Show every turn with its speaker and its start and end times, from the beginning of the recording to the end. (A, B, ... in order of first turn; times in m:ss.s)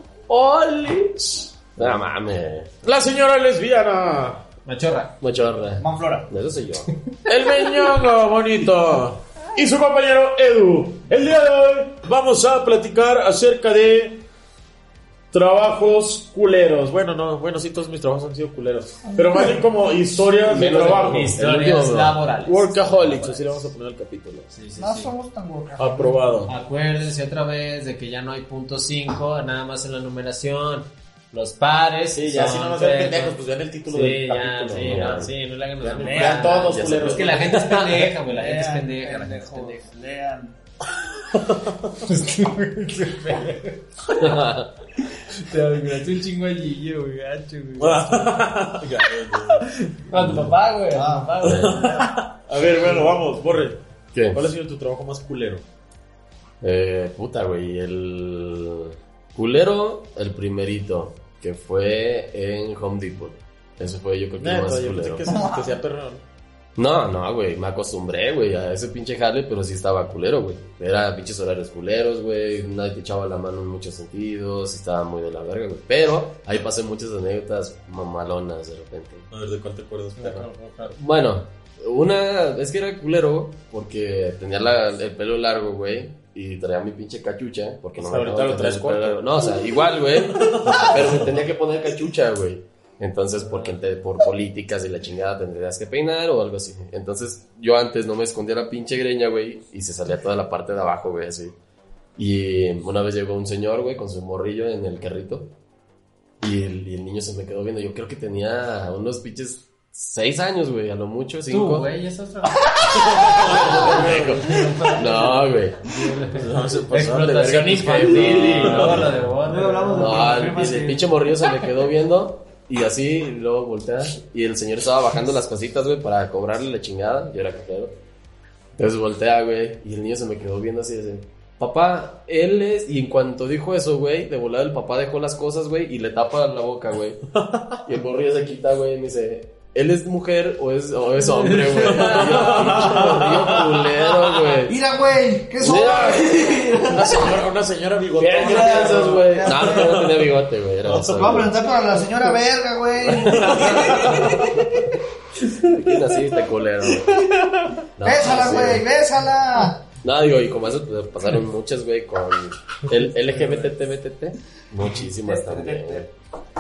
0:00.3-0:01.2 A
0:01.2-0:01.7 B
0:01.8-0:02.8 A
0:02.8-0:04.4 B
0:04.6-0:05.2 C
0:05.2-0:07.0 A
0:05.8-0:06.3 D
0:07.2-0:14.2 B
0:15.3-0:21.4 B
0:19.0-0:19.6 D
0:20.4-0:22.2 A
0:20.6-0:23.6 C
0:22.4-0:24.5 B
0:24.5-0:25.1 C
0:24.8-0:26.5 D
0:25.8-0:26.5 B
0:26.5-0:39.8 C
0:32.2-0:35.2 B
0:34.8-0:35.3 A
0:35.8-0:37.6 B
0:36.0-0:36.8 D
0:36.7-0:38.0 A
0:37.6-0:40.6 D
0:41.3-0:42.0 B
0:42.0-0:43.8 C
0:44.2-0:44.7 A
0:45.2-0:48.4 C
0:47.8-0:49.7 B
0:49.4-0:52.1 C
0:50.1-0:50.5 A
0:50.9-0:51.3 D
0:51.4-0:51.9 A
0:51.4-0:53.8 B
0:52.8-0:53.2 C
0:54.1-0:54.4 A
0:54.3-0:55.6 B
0:56.6-1:05.3 A
1:04.4-1:06.2 B
1:05.3-1:05.8 D
1:06.8-1:19.3 A
1:19.3-1:20.5 B
1:20.2-1:21.0 C
1:20.9-1:41.6 A
1:28.0-1:29.6 B
1:30.3-1:31.3 B
1:42.2-1:45.5 A
1:46.4-1:51.9 A
1:51.5-2:00.2 C
1:52.7-1:53.2 D
1:52.9-1:54.4 B
1:53.2-1:55.8 A
1:54.6-1:55.2 D
1:56.3-1:59.2 B
1:58.0-1:59.2 A
1:59.4-2:01.3 D
1:59.9-2:08.0 A
2:08.8-2:17.2 A
2:17.5-2:17.8 B
2:17.8-2:24.8 A
2:21.2-2:22.6 C
2:21.7-2:23.6 B
2:24.6-2:27.4 D
2:25.6-2:27.2 A
2:26.9-2:31.5 B
2:28.2-2:32.4 A
2:28.4-2:30.1 D
2:31.1-2:34.9 D
2:33.0-2:34.9 A
2:33.4-2:34.5 B
2:35.6-2:37.3 A
2:37.0-2:39.8 D
2:38.0-2:38.9 A
2:40.0-2:46.1 A
2:43.3-2:43.6 C
2:44.8-2:46.1 D